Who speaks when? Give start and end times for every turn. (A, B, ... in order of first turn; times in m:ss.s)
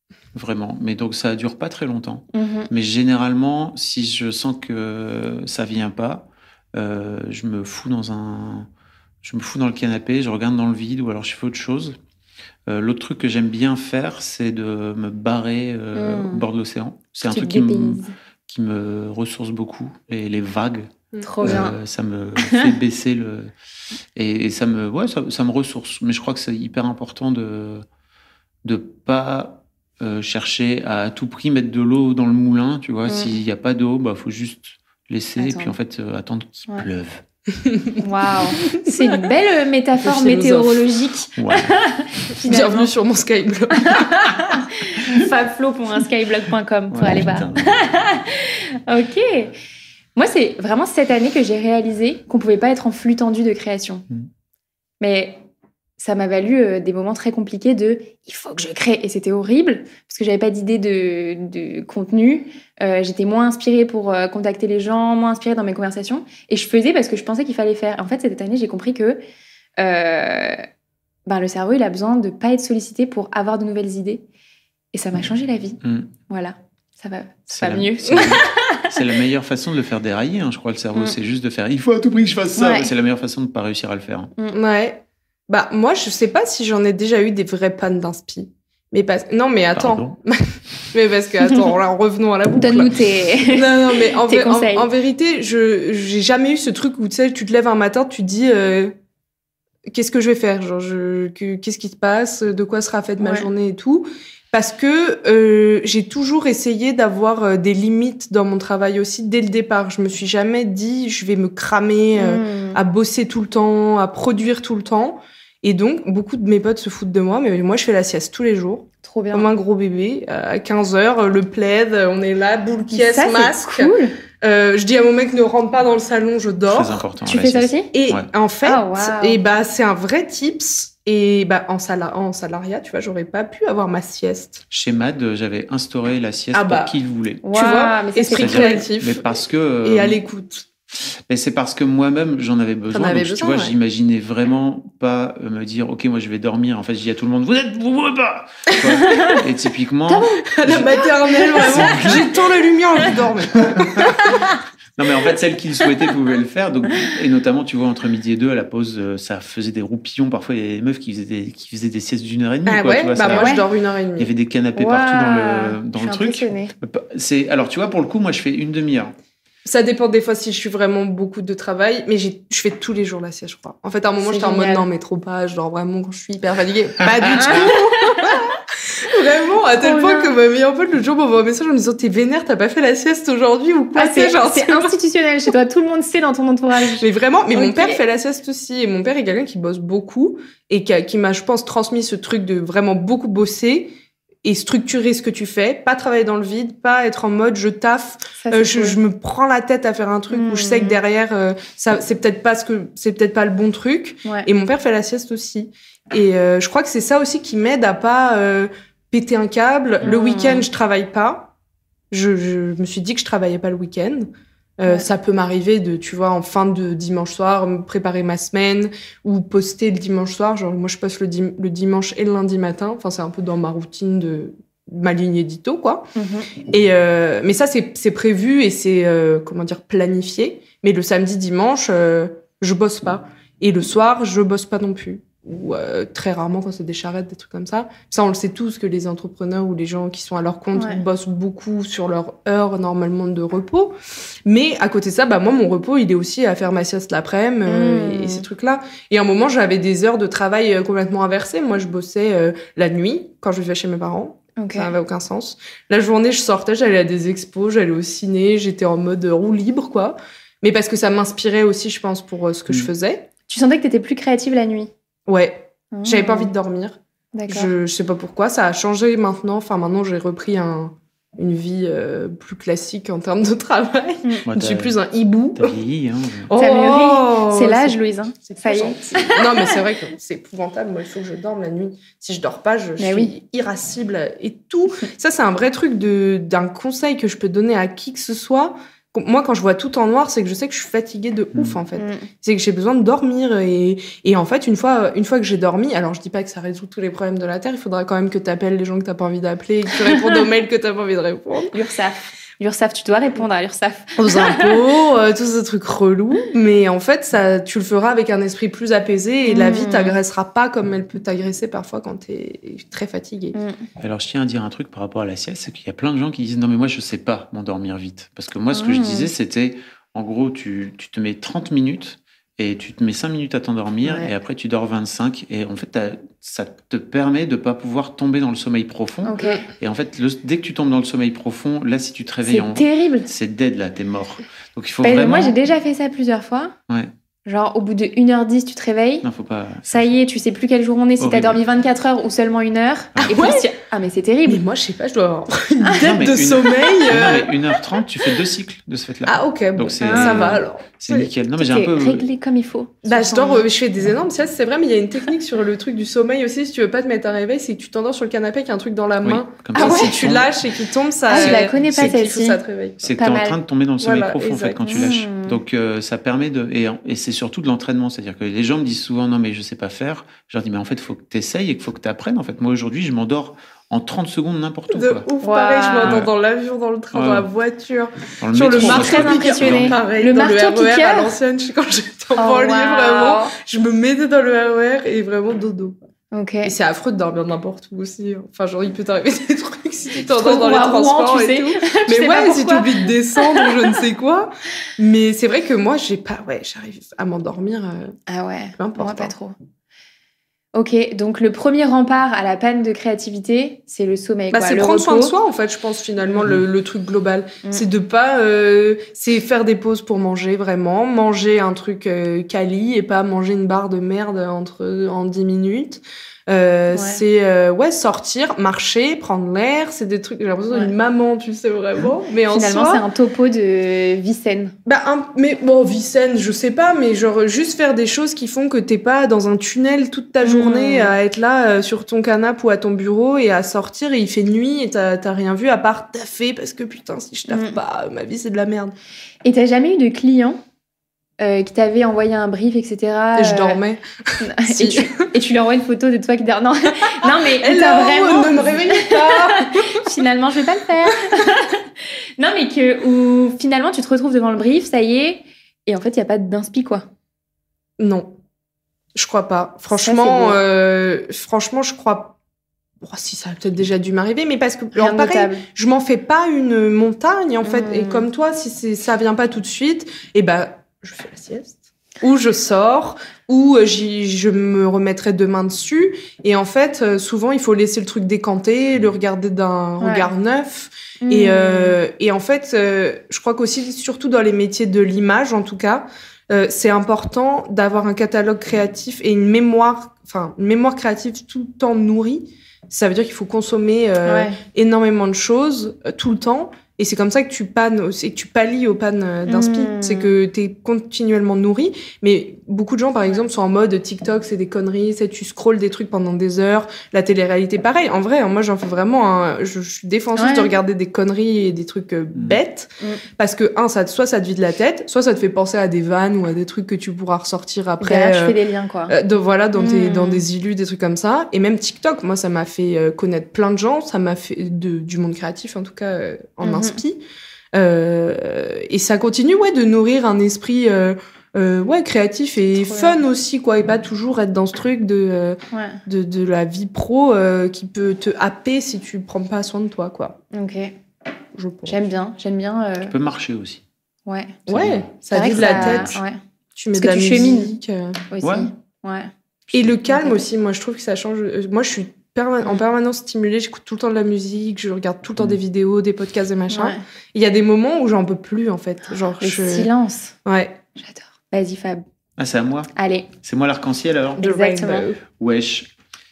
0:00.3-0:08.7 A
0:02.3-0:02.7 B
0:09.2-0:12.0 A
0:12.7-0:20.9 A
0:15.9-0:16.4 B
0:17.3-0:18.1 B
0:21.1-0:21.6 C
0:21.2-0:21.7 B
0:21.4-0:23.5 A
0:22.4-0:22.7 B
0:24.2-0:27.8 A
0:28.6-0:37.2 A
0:33.1-0:33.3 B
0:35.4-0:35.7 B
0:37.7-0:38.0 C
0:38.0-0:42.9 B
0:38.7-0:39.2 C
0:40.0-0:40.9 C
0:41.4-0:41.7 A
0:42.4-0:44.1 C
0:43.8-0:49.5 B
0:46.9-0:47.8 A
0:50.2-0:54.0 B
0:55.0-0:55.4 B
0:56.0-1:09.2 B
1:09.8-1:10.6 B
1:11.3-1:14.2 B
1:14.9-1:18.9 B
1:15.8-1:16.1 A
1:17.5-1:24.3 A
1:22.6-1:22.9 B
1:24.5-1:38.9 C
1:29.7-1:30.2 A
1:32.6-1:34.9 B
1:39.9-2:07.0 C
1:43.2-1:43.5 B
1:52.1-1:52.8 B
1:59.0-1:59.5 B
2:02.9-2:04.2 B
2:06.7-2:08.3 A
2:07.2-2:07.9 B
2:07.9-2:14.6 C
2:08.6-2:09.4 B
2:14.7-2:17.4 A
2:16.5-2:16.9 C
2:17.4-2:18.8 B
2:17.5-2:20.7 C
2:18.4-2:20.2 A
2:20.9-2:32.3 A
2:22.9-2:23.7 C
2:29.0-2:29.4 B
2:30.1-2:30.4 B
2:30.5-2:34.4 C
2:31.2-2:32.2 B
2:33.6-2:34.1 A
2:34.2-2:34.6 B
2:35.0-2:43.6 A
2:42.6-2:44.3 C
2:43.2-2:43.6 B
2:44.2-2:49.1 A
2:44.8-2:46.7 B
2:49.6-3:04.9 C
2:54.2-2:54.8 B
2:57.2-2:57.6 A
2:57.4-2:58.4 B
2:59.8-3:00.3 B
3:03.9-3:08.0 B
3:07.0-3:13.9 C
3:14.4-3:31.5 C
3:18.4-3:19.0 B
3:20.3-3:21.0 B
3:30.0-3:30.7 B
3:32.1-3:46.1 C
3:46.2-3:46.5 B
3:46.7-4:23.3 C
4:00.7-4:01.0 B
4:07.7-4:08.4 B
4:14.6-4:14.9 B
4:23.5-4:24.9 B
4:25.3-4:27.0 C
4:25.9-4:26.5 B
4:27.3-4:27.7 B
4:27.5-4:35.7 C
4:34.5-4:35.0 A
4:35.6-4:36.5 A
4:36.5-5:01.7 C
4:36.6-4:39.8 B
4:43.0-4:43.3 B
4:52.0-4:52.2 B
5:01.7-5:04.8 B
5:04.2-5:13.6 C
5:09.4-5:10.2 B
5:13.5-5:13.8 B
5:14.0-5:35.6 A
5:18.7-5:19.3 B
5:29.2-5:29.6 B
5:32.4-5:33.3 B
5:35.0-5:36.7 B
5:37.4-5:39.3 B
5:39.2-5:40.1 A
5:39.8-5:44.6 B
5:41.2-5:41.6 A
5:43.3-5:43.6 C
5:44.5-5:47.6 C
5:46.0-5:52.2 A
5:49.2-5:51.3 C
5:50.0-5:50.6 B
5:51.6-5:53.6 B
5:53.0-6:03.1 C
5:59.2-6:00.5 A
5:59.7-6:00.2 B
6:01.3-6:02.6 B
6:01.3-6:02.1 A
6:03.0-6:15.2 A
6:03.2-6:03.6 B
6:04.0-6:05.0 C
6:04.8-6:05.6 B
6:14.9-6:26.0 C
6:15.4-6:16.2 B
6:16.0-6:16.3 A
6:17.1-6:17.5 A
6:18.4-6:20.0 A
6:18.7-6:21.3 B
6:22.4-6:23.5 B
6:26.3-6:26.7 B
6:26.6-6:38.2 C
6:30.2-6:33.9 B
6:38.3-6:39.5 B
6:38.8-6:39.3 C
6:40.7-6:45.3 B
6:44.5-7:03.0 C
6:56.9-6:57.2 B
7:02.5-7:04.7 B
7:04.8-7:18.9 C
7:10.4-7:11.1 B
7:17.5-7:17.8 B
7:19.4-7:20.6 B
7:21.4-7:23.8 B
7:23.3-7:25.3 C
7:24.4-7:37.1 B
7:27.2-7:30.0 C
7:38.0-7:38.3 C
7:39.1-7:42.4 C
7:39.9-7:40.6 B
7:43.0-8:47.2 C
7:44.9-7:45.6 B
7:47.6-7:48.3 B
8:00.0-8:00.3 B
8:01.2-8:02.0 B
8:14.2-8:14.6 B
8:19.5-8:20.3 B
8:30.4-8:30.7 B
8:38.0-8:39.1 B
8:39.8-8:40.4 B
8:46.6-8:47.0 B
8:47.7-9:00.4 C
8:52.6-8:53.2 B
8:55.7-8:56.0 B
9:00.5-9:00.9 B
9:01.5-9:02.0 C
9:01.9-9:03.1 B
9:03.0-9:03.8 A
9:04.2-9:04.6 B
9:04.7-9:06.2 C
9:04.7-9:06.1 A
9:05.3-9:06.4 B
9:06.8-9:08.2 C
9:06.9-9:07.7 B
9:08.3-9:09.3 B
9:08.4-9:08.7 A
9:09.7-9:19.9 C
9:10.1-9:10.4 B
9:16.7-9:17.0 B
9:19.4-9:20.3 B
9:20.4-9:20.8 C
9:20.9-9:22.0 B
9:22.4-9:24.4 A
9:23.0-9:23.3 B
9:24.4-9:25.1 B
9:24.4-9:25.2 C
9:25.4-9:25.9 A